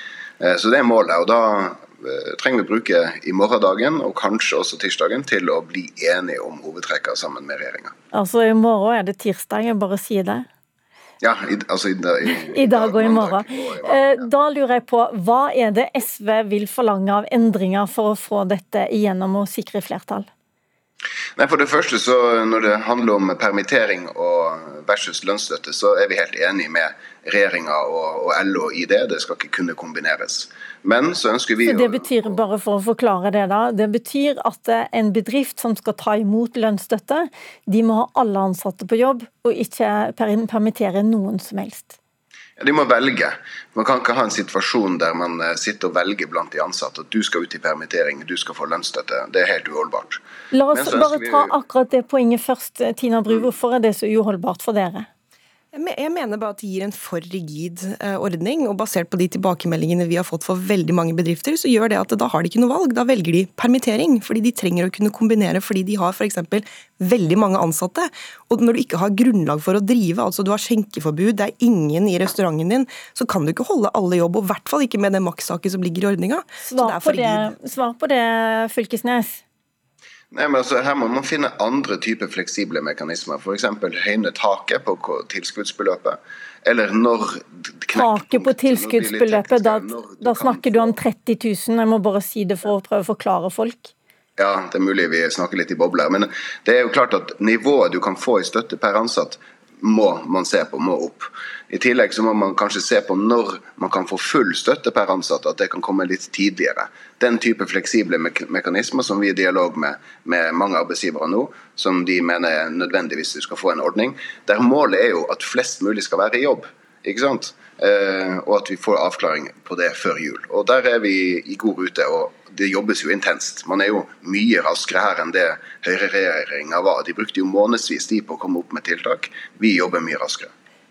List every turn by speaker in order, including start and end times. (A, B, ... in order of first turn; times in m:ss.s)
0:00.4-0:07.9 A
0:08.1-0:10.5 B
0:11.2-0:14.2 A
0:12.5-0:20.3 B
0:21.4-0:32.4 A
0:31.6-0:42.0 B
0:42.6-0:50.2 A
0:50.5-0:55.1 B
0:50.7-0:51.5 A
0:55.7-1:17.5 C
1:16.6-1:19.4 B
1:20.3-1:31.0 A
1:28.0-1:33.9 B
1:34.4-2:10.5 A